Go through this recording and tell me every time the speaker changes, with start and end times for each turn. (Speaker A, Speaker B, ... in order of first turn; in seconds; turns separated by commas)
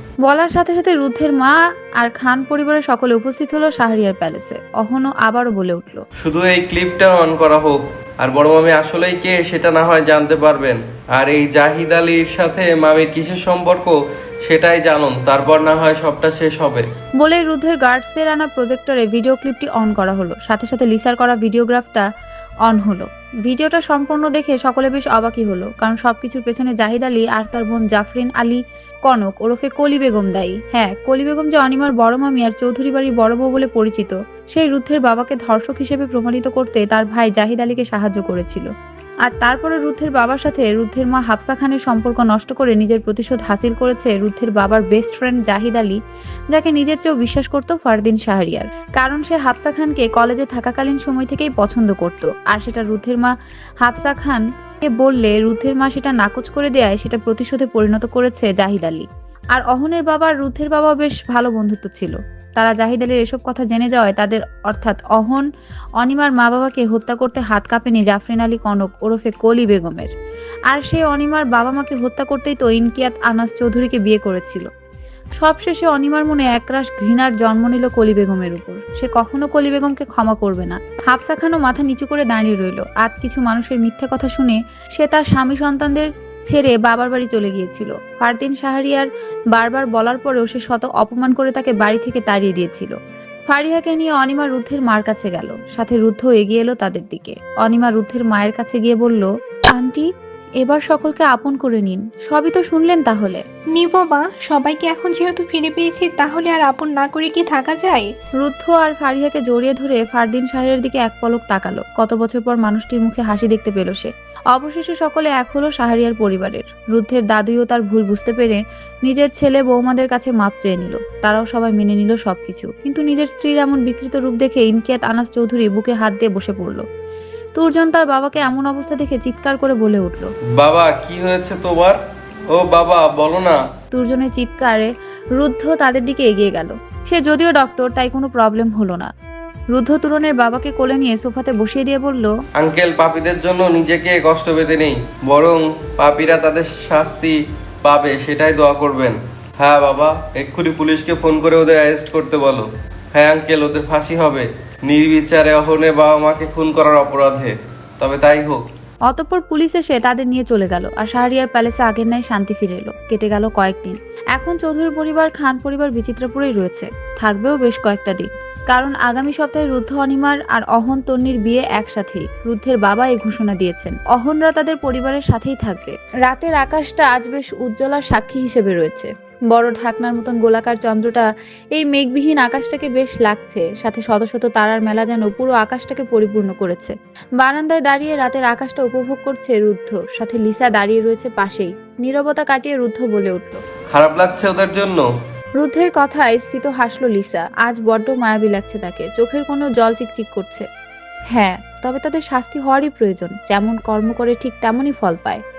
Speaker A: 0.3-6.0, Speaker B: 6.2-16.8, Speaker A: 17.2-22.1, Speaker A: 22.7-38.7, Speaker A: 39.2-46.0, Speaker A: 46.5-65.5, Speaker A: 66.0-70.1, Speaker A: 70.7-74.7, Speaker A: 75.4-92.9, Speaker A: 93.5-100.1, Speaker A: 100.6-103.4, Speaker C: 103.7-108.1, Speaker A: 108.4-126.8, Speaker A: 127.6-130.3, Speaker B: 130.6-132.0, Speaker B: 132.5-133.6, Speaker A: 133.9-139.1, Speaker A: 139.7-142.3, Speaker B: 142.6-158.6, Speaker A: 159.1-193.6, Speaker B: 193.9-195.1, Speaker A: 195.6-200.7, Speaker A: 201.3-205.4